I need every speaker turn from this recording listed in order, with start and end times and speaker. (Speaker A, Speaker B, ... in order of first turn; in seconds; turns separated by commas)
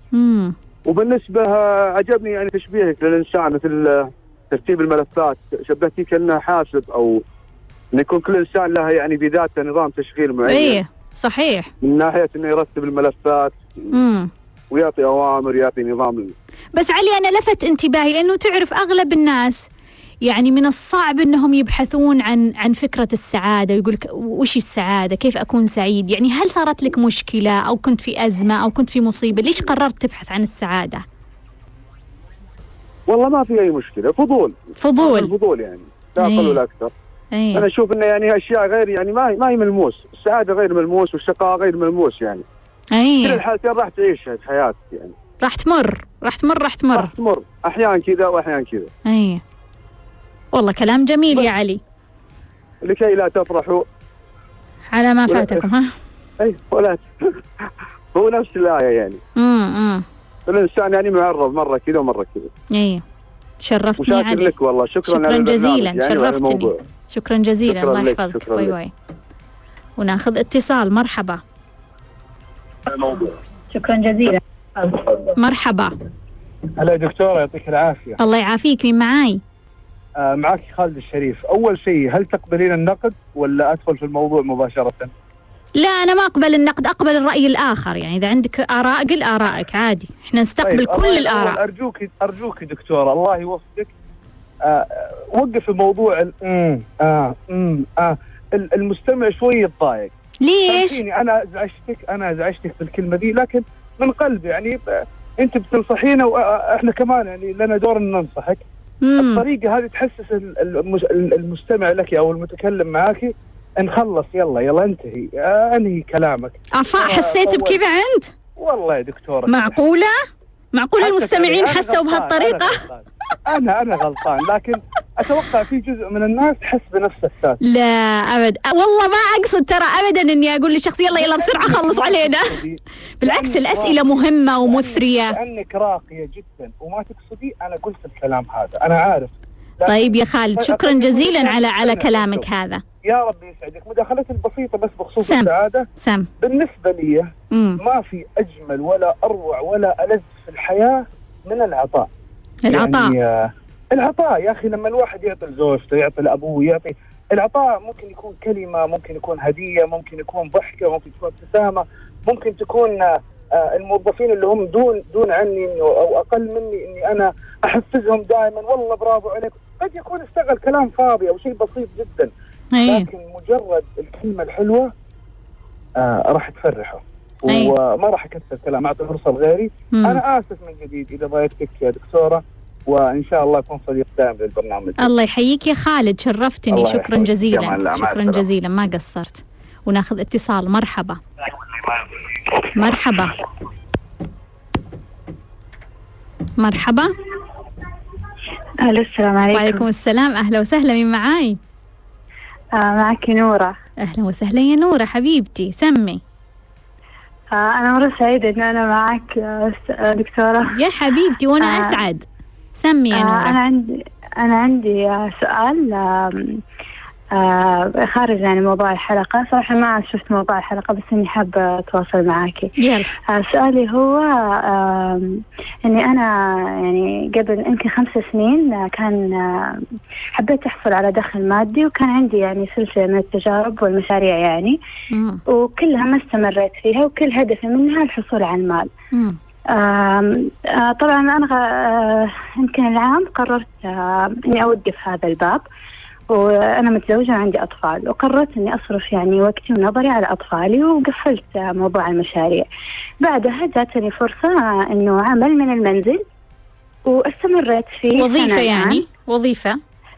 Speaker A: 0.1-0.6, Speaker B: 0.9-7.2, Speaker B: 7.9-10.8, Speaker A: 10.5-11.7, Speaker B: 11.8-13.9, Speaker A: 13.9-14.3, Speaker B: 14.7-16.3, Speaker A: 16.8-19.7, Speaker A: 20.2-31.0, Speaker B: 33.1-36.9, Speaker A: 34.8-35.3, Speaker A: 36.2-36.6, Speaker A: 37.3-37.6, Speaker B: 37.5-42.5, Speaker A: 42.9-43.4, Speaker B: 43.2-45.2, Speaker A: 45.4-47.1, Speaker B: 46.9-48.9, Speaker A: 49.1-49.4, Speaker A: 50.5-51.8, Speaker B: 52.8-53.9, Speaker A: 54.9-55.9, Speaker B: 55.3-55.6, Speaker B: 56.4-57.4, Speaker B: 58.1-59.2, Speaker A: 59.4-60.0, Speaker B: 60.5-62.5, Speaker A: 62.7-63.0, Speaker A: 63.6-64.5, Speaker B: 64.0-66.8, Speaker A: 65.1-68.9, Speaker B: 67.7-68.7, Speaker A: 70.0-71.4, Speaker B: 72.9-73.3, Speaker C: 73.7-75.0, Speaker A: 75.4-76.0, Speaker D: 76.8-78.2, Speaker A: 78.2-79.4, Speaker D: 80.2-85.1, Speaker A: 85.8-91.6, Speaker D: 90.6-93.9, Speaker D: 94.7-100.1, Speaker A: 100.4-101.0, Speaker D: 100.7-108.6, Speaker A: 109.0-109.4, Speaker D: 109.2-117.8, Speaker A: 116.8-118.3, Speaker D: 118.6-119.8, Speaker A: 119.5-120.2, Speaker A: 120.7-122.8, Speaker D: 121.0-127.6, Speaker A: 127.6-132.6, Speaker D: 131.2-142.5, Speaker A: 133.2-135.4, Speaker A: 139.9-142.8, Speaker D: 143.1-145.9, Speaker A: 145.2-146.3, Speaker D: 146.4-152.1, Speaker A: 147.5-147.8, Speaker A: 152.7-153.1, Speaker D: 152.7-172.3, Speaker A: 172.7-173.1, Speaker D: 172.9-174.9, Speaker D: 176.0-185.1, Speaker A: 177.5-177.7, Speaker A: 179.9-180.2, Speaker A: 185.0-191.2, Speaker D: 186.7-188.4, Speaker A: 192.8-193.3, Speaker A: 196.6-197.1, Speaker C: 198.8-199.8, Speaker A: 199.5-201.6, Speaker C: 202.8-203.8, Speaker A: 204.0-206.2, Speaker C: 207.5-210.7, Speaker A: 210.7-212.2, Speaker C: 211.6-212.0, Speaker A: 212.8-213.6, Speaker C: 213.1-216.6, Speaker C: 217.3-222.7, Speaker A: 222.8-223.1, Speaker C: 223.3-226.3, Speaker C: 226.8-229.8, Speaker C: 230.3-234.8, Speaker A: 235.1-235.4, Speaker C: 235.5-238.9, Speaker A: 239.1-239.4, Speaker C: 239.7-245.6, Speaker C: 246.3-252.7, Speaker C: 253.2-256.2, Speaker C: 257.1-259.0, Speaker A: 258.2-259.8